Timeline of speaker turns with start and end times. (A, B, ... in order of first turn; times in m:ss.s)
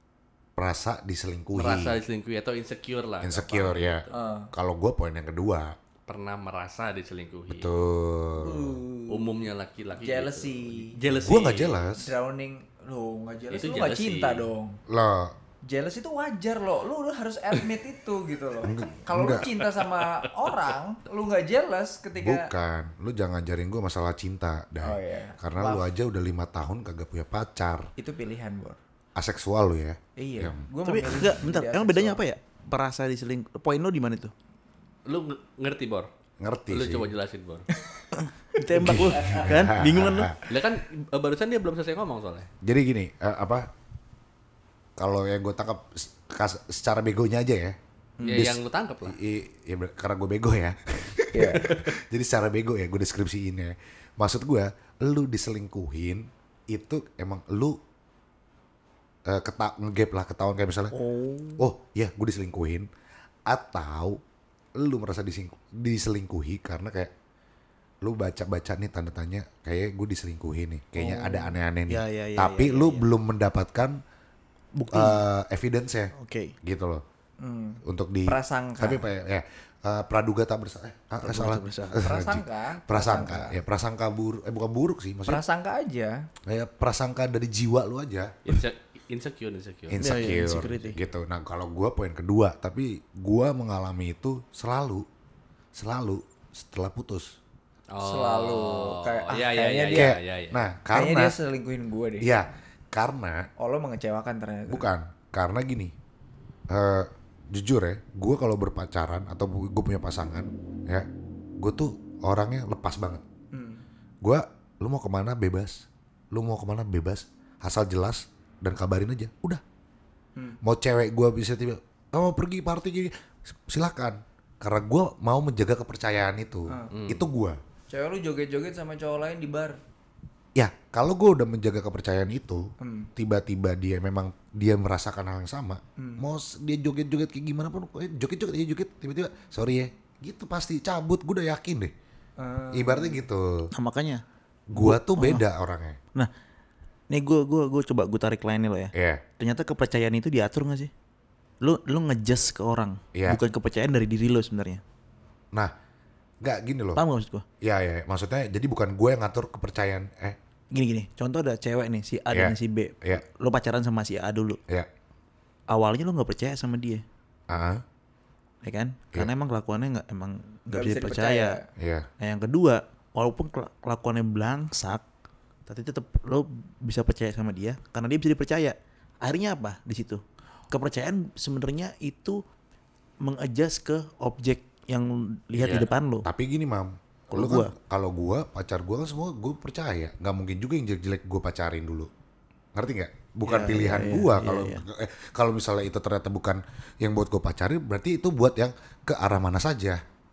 0:00.6-0:02.0 A
0:01.5-0:04.1 B
0:03.2-0:05.8 A
0:04.1-0:04.5 C
0:06.1-0:07.7 B
0:07.5-0:08.8 A
0:08.4-0:09.3 C
0:09.1-0:11.8 B
0:10.0-0:11.0 C
0:11.1-0:12.1 A
0:12.0-0:14.8 C
0:13.5-0:14.4 B
0:14.9-0:15.3 A
0:15.7-0:22.5 C
0:18.6-0:19.4 A
0:19.6-0:20.5 B
0:22.2-0:27.9 A
0:24.8-0:25.8 C
0:28.0-0:28.8 C
0:29.2-0:30.6 A
0:30.2-0:32.2 C
0:30.8-0:34.3 D
0:35.0-0:36.1 B
0:36.4-0:37.1 A
0:36.7-0:37.6 B
0:38.1-0:40.3 D
0:38.7-0:39.5 C
0:38.8-0:40.4 A
0:40.5-0:42.5 B
0:42.6-0:43.7 A
0:45.0-0:47.8 A
0:48.2-0:48.4 C
0:48.2-0:49.2 B
0:48.3-0:57.8 A
0:51.3-0:51.7 C
0:59.2-1:00.9 A
1:00.9-1:01.7 D
1:01.6-1:02.9 A
1:03.5-1:04.2 A
1:04.8-1:07.1 A
1:08.0-1:14.0 A
1:11.0-1:11.5 C
1:11.9-1:13.1 D
1:14.8-1:15.2 D
1:14.9-1:16.1 A
1:16.1-1:16.5 D
1:16.6-1:17.0 A
1:17.4-1:19.0 C
1:17.8-1:25.4 A
1:21.2-1:22.1 D
1:22.0-1:23.6 C
1:25.3-1:26.3 C
1:26.4-1:28.6 A
1:28.4-1:30.0 B
1:29.9-1:35.0 A
1:30.0-1:31.0 D
1:35.7-1:37.4 A
1:37.9-1:40.6 B
1:38.0-1:40.1 C
1:39.9-1:41.4 A
1:40.9-1:42.3 C
1:42.2-1:43.5 A
1:43.6-1:44.8 C
1:44.7-1:45.9 A
1:46.7-1:51.1 A
1:51.6-1:53.2 A
1:53.5-1:53.8 C
1:54.2-1:59.6 A
2:00.6-2:03.1 A
2:03.7-2:07.6 A
2:06.7-2:06.9 C
2:06.9-2:07.2 B
2:07.9-2:09.8 C
2:10.6-2:21.9 A
2:12.8-2:13.1 C
2:16.0-2:16.2 C
2:22.4-2:23.2 C
2:22.7-2:23.7 A
2:23.7-2:25.4 D
2:24.7-2:26.0 A
2:27.1-2:30.9 D
2:28.9-2:29.2 A
2:31.6-2:34.8 D
2:33.1-2:33.4 A
2:36.4-2:37.0 A
2:36.9-2:37.4 D
2:37.6-2:40.4 A
2:40.7-2:44.6 D
2:42.3-2:43.2 A
2:45.7-2:47.0 D
2:47.5-2:47.8 A
2:48.6-2:51.6 D
2:50.7-2:51.7 C
2:51.8-2:52.1 A
2:52.2-2:55.0 D
2:55.7-3:02.4 D
3:03.2-3:06.3 D
3:05.6-3:12.1 A
3:07.3-3:07.7 D
3:12.7-3:20.0 A
3:13.4-3:14.8 D